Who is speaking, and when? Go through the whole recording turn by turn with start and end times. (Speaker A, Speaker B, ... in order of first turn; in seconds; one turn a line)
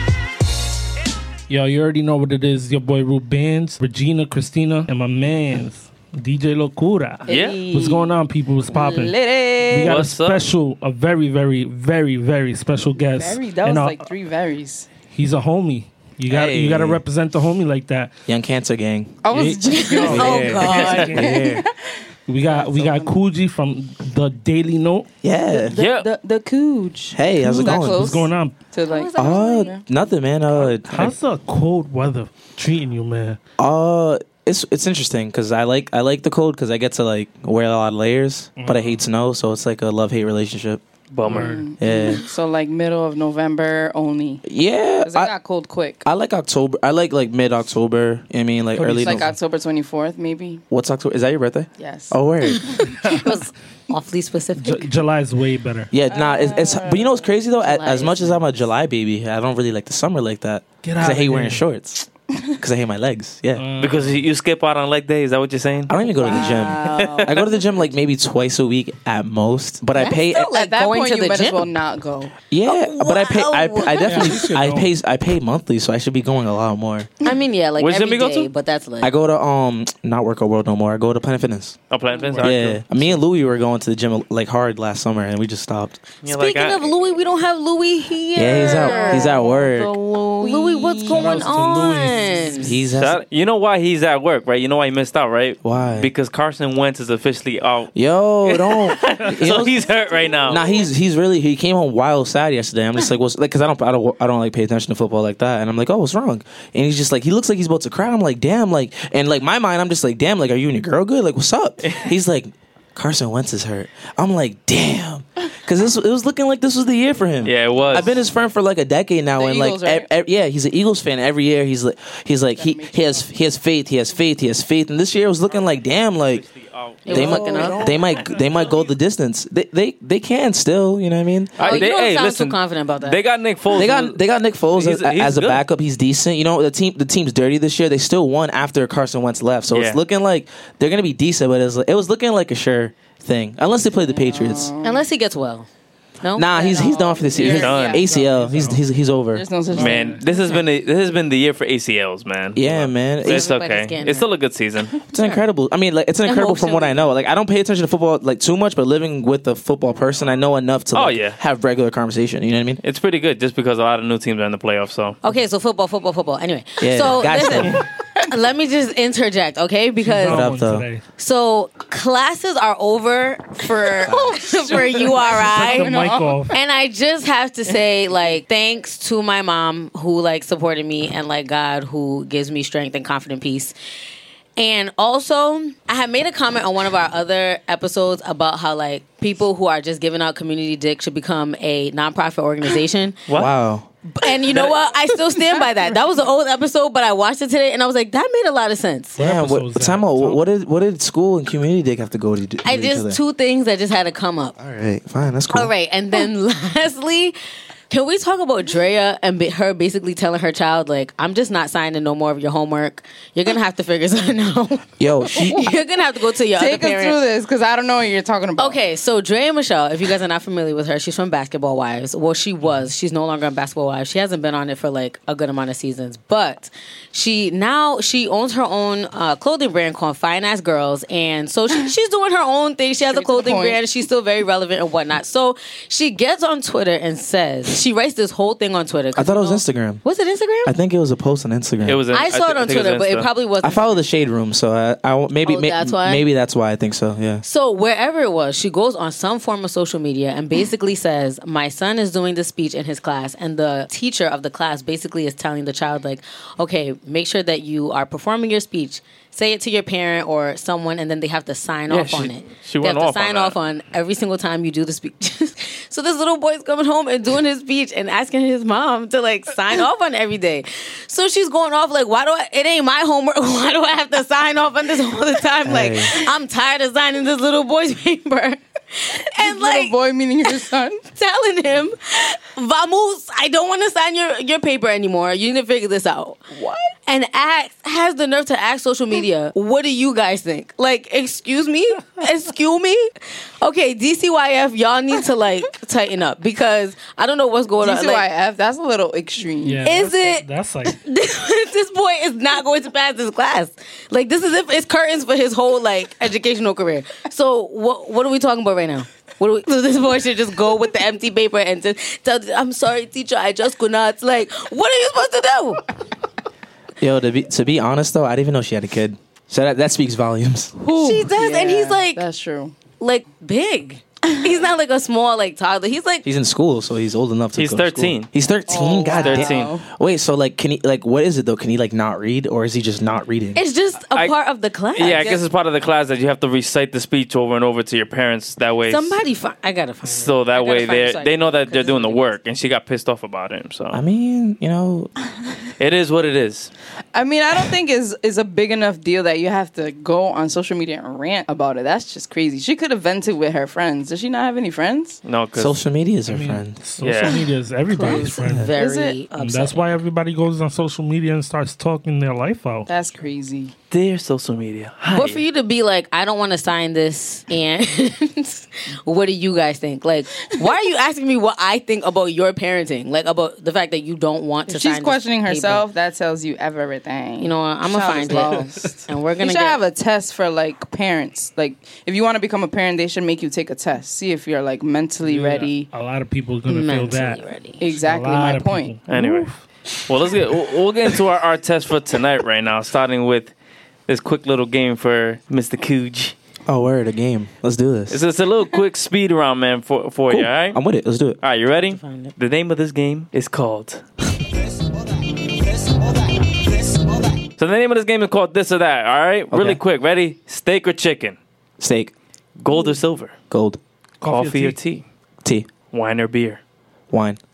Speaker A: 1.5-9.2
Speaker B: 7.3-8.1
Speaker C: 7.3-7.6
Speaker B: 8.7-10.0
Speaker A: 9.7-14.1
Speaker C: 9.8-10.4
Speaker B: 13.0-14.9
Speaker A: 15.0-18.1
Speaker D: 16.3-17.0
Speaker D: 18.3-19.2
Speaker B: 19.2-21.9
Speaker A: 19.3-21.6
Speaker E: 19.6-21.3
Speaker D: 20.0-21.7
Speaker A: 22.3-25.1
Speaker B: 22.4-23.1
Speaker D: 25.2-25.8
Speaker B: 25.5-29.8
Speaker C: 25.8-26.1
Speaker D: 27.1-28.2
Speaker A: 27.4-28.6
Speaker E: 28.8-29.8
Speaker D: 29.2-31.1
Speaker A: 30.5-33.4
Speaker D: 33.6-40.8
Speaker A: 38.6-39.0
Speaker C: 41.1-41.6
Speaker B: 41.2-44.4
Speaker A: 41.2-41.7
Speaker D: 41.8-42.2
Speaker D: 44.4-45.3
Speaker B: 45.0-46.0
Speaker D: 46.0-49.3
Speaker A: 48.8-49.3
Speaker B: 48.8-50.6
Speaker D: 50.7-52.8
Speaker B: 51.8-53.3
Speaker E: 52.9-54.9
Speaker A: 54.6-55.9
Speaker D: 55.9-63.6
Speaker B: 56.0-57.1
Speaker E: 57.6-58.5
Speaker A: 60.8-61.6
Speaker A: 63.5-64.2
Speaker C: 63.8-67.3
Speaker D: 65.9-70.5
Speaker B: 66.0-67.6
Speaker E: 69.9-71.7
Speaker B: 70.4-72.3
Speaker D: 72.5-77.1
Speaker E: 72.6-74.4
Speaker A: 74.0-74.9
Speaker E: 77.2-79.1
Speaker C: 77.8-78.5
Speaker D: 79.0-81.8
Speaker C: 81.9-82.8
Speaker A: 82.2-83.2
Speaker D: 82.4-86.0
Speaker C: 86.2-86.9
Speaker E: 86.3-92.8
Speaker D: 88.3-89.9
Speaker B: 88.4-89.6
Speaker B: 90.3-91.6
Speaker A: 91.1-92.7
Speaker D: 92.6-93.2
Speaker C: 93.0-97.9
Speaker D: 95.6-96.1
Speaker D: 97.9-99.7
Speaker C: 98.5-100.6
Speaker D: 100.4-126.4
Speaker C: 117.4-118.1
Speaker B: 117.7-118.3
Speaker B: 119.3-120.1
Speaker B: 122.5-123.3
Speaker C: 126.3-127.3
Speaker E: 127.0-127.8
Speaker B: 127.1-128.1
Speaker D: 127.1-131.6
Speaker C: 131.6-134.2
Speaker E: 131.6-133.2
Speaker D: 133.7-144.7
Speaker C: 134.7-135.6
Speaker C: 139.7-140.0
Speaker B: 143.9-145.0
Speaker E: 144.8-145.7
Speaker E: 146.2-146.9
Speaker D: 146.3-149.4
Speaker B: 146.6-148.2
Speaker C: 147.4-148.0
Speaker A: 148.0-148.8
Speaker B: 149.3-150.6
Speaker C: 149.7-155.0
Speaker A: 149.7-150.1
Speaker D: 152.5-153.5
Speaker E: 153.2-154.3
Speaker D: 155.1-162.8
Speaker E: 156.2-157.1
Speaker C: 160.9-161.4
Speaker C: 162.8-165.2
Speaker E: 165.2-170.5
Speaker D: 166.8-167.8
Speaker A: 170.0-171.0
Speaker D: 170.2-170.9
Speaker E: 171.2-183.7
Speaker D: 174.1-174.3
Speaker B: 174.1-176.5
Speaker A: 175.2-176.6
Speaker E: 184.6-193.2
Speaker D: 193.3-193.9
Speaker E: 194.1-199.2
Speaker C: 194.5-194.8
Speaker B: 195.3-195.6
Speaker A: 199.2-200.4
Speaker D: 199.2-203.2
Speaker E: 202.6-204.6
Speaker D: 204.6-205.7
Speaker E: 205.5-207.4
Speaker E: 207.9-217.2
Speaker D: 215.0-215.7
Speaker B: 216.5-218.8
Speaker E: 218.6-240.7
Speaker B: 233.1-233.8
Speaker D: 239.1-240.0
Speaker D: 240.6-242.0
Speaker C: 241.8-243.3
Speaker E: 242.1-244.0
Speaker D: 243.6-247.4
Speaker E: 245.4-246.2
Speaker E: 247.4-279.9
Speaker C: 261.9-263.6
Speaker D: 275.6-276.2
Speaker B: 279.4-281.0
Speaker E: 281.1-286.4
Speaker B: 286.5-286.9
Speaker E: 287.1-298.3
Speaker B: 297.8-299.9
Speaker A: 299.6-301.0
Speaker E: 299.8-315.8
Speaker D: 317.0-320.8
Speaker B: 320.8-322.7
Speaker E: 320.9-322.2
Speaker E: 323.0-326.2
Speaker D: 326.2-333.6
Speaker C: 327.5-328.3
Speaker B: 328.7-329.8
Speaker C: 329.1-329.7
Speaker E: 333.5-335.4
Speaker C: 334.9-339.2
Speaker B: 335.1-335.4
Speaker E: 338.9-342.3
Speaker C: 340.0-344.0
Speaker D: 343.9-345.1
Speaker C: 345.8-346.7
Speaker B: 347.1-355.2
Speaker C: 355.2-355.8
Speaker D: 355.6-356.8
Speaker A: 356.3-358.7
Speaker C: 357.0-357.4
Speaker E: 357.9-360.0
Speaker B: 358.7-359.2
Speaker A: 359.3-362.9
Speaker B: 362.9-363.7
Speaker C: 363.9-365.4
Speaker E: 365.1-375.8
Speaker B: 374.7-385.9
Speaker E: 377.4-379.8
Speaker A: 385.2-389.6
Speaker E: 386.7-387.8
Speaker B: 387.8-388.9
Speaker C: 389.1-389.5
Speaker C: 390.1-393.5
Speaker C: 394.1-396.3
Speaker D: 396.7-398.2
Speaker C: 398.1-400.8
Speaker D: 400.3-401.4
Speaker C: 401.4-404.0
Speaker E: 401.9-402.3
Speaker C: 407.6-411.4
Speaker D: 409.5-409.8
Speaker D: 411.8-412.1
Speaker C: 412.6-413.3
Speaker B: 412.7-412.9
Speaker D: 413.5-413.8
Speaker A: 414.2-414.8
Speaker C: 414.2-415.0
Speaker C: 415.9-416.6
Speaker D: 417.1-417.4